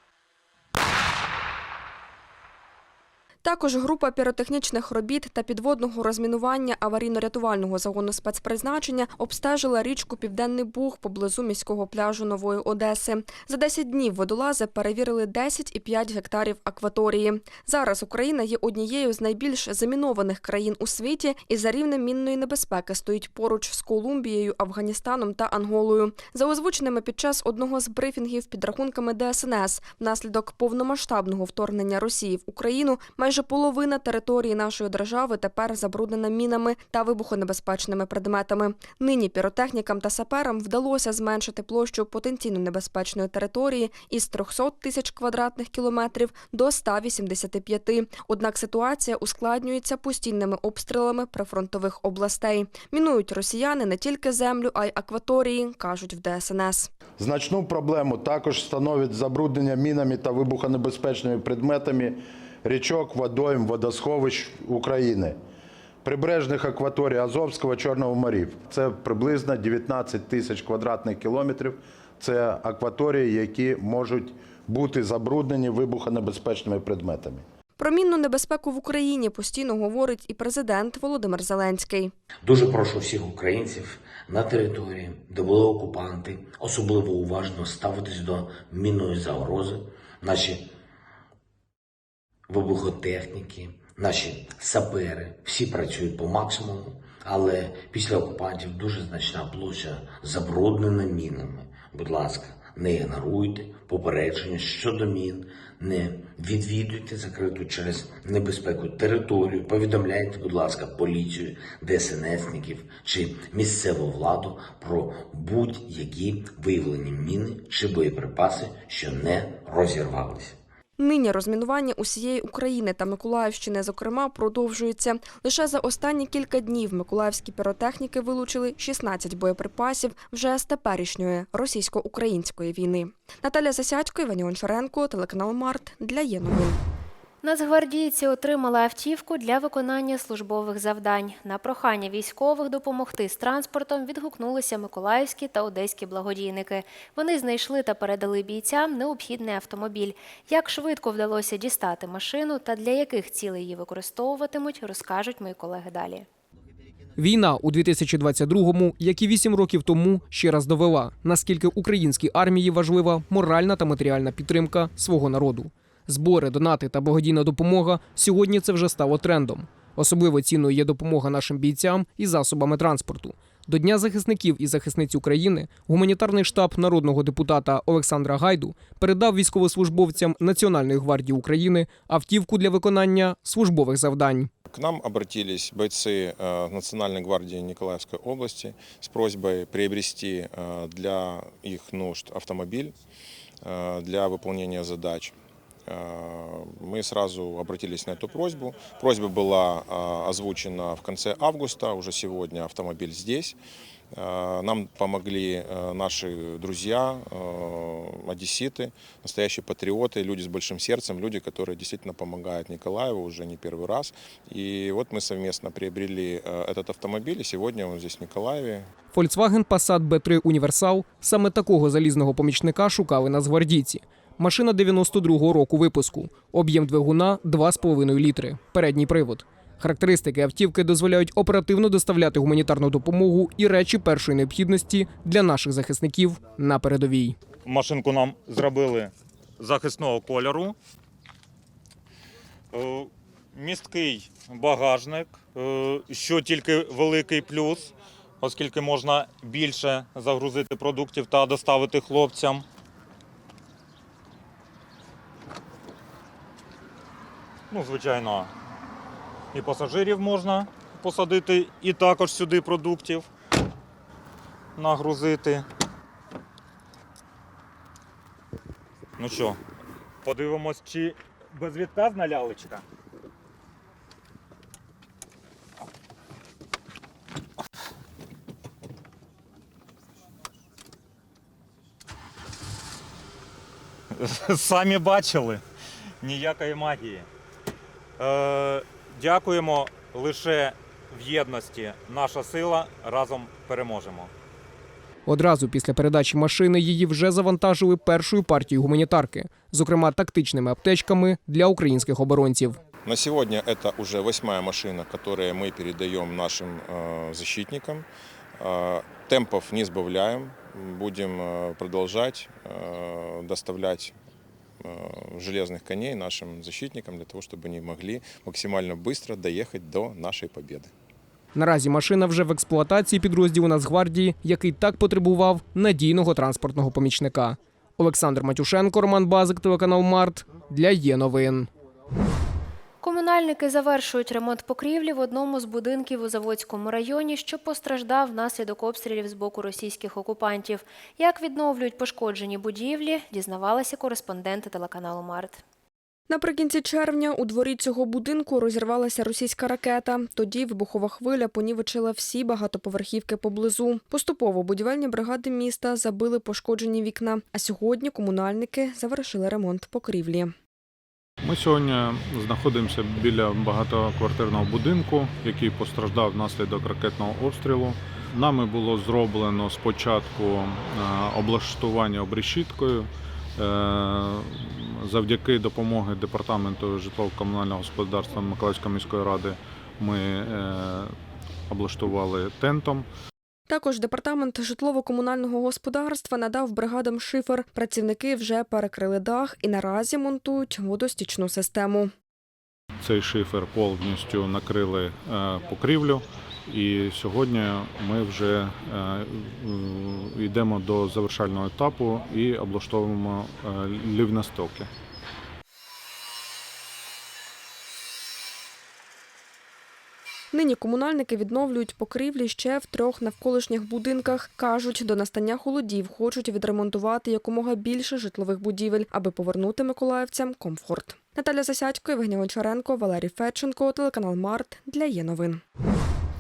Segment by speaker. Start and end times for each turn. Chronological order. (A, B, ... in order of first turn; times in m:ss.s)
0:03.4-0:56.9 A
0:57.2-1:05.4 B
1:06.0-1:17.4 B
1:17.8-1:22.1 A
1:22.4-1:30.7 C
1:32.5-2:00.6 C
2:01.0-2:16.8 A
2:17.4-2:36.3 D
2:37.2-3:04.5 E
3:04.7-3:12.9 F
3:13.6-3:15.4 F
3:15.9-3:23.6 F
3:24.1-3:38.9 F
3:39.1-3:57.4 E
3:57.7-4:00.8 G
4:02.7-4:12.6 G
4:17.7-4:18.5 G
4:19.5-4:23.3 G
4:24.8-4:25.7 G
4:29.2-4:29.6 G
4:30.2-4:32.8 G
4:44.2-4:45.6 G
4:46.2-4:47.3 G
4:48.2-4:54.3 G
4:55.3-5:02.8 E
5:03.0-5:08.1 F
5:08.6-5:14.2 F
5:14.8-5:20.9 F
5:21.5-5:31.7 E
5:33.0-5:45.6 D
5:46.3-6:00.5 A
6:01.4-6:21.2 H
6:21.7-6:23.1 H
6:23.7-6:32.1 A
6:33.0-6:44.9 H
6:50.5-7:05.6 A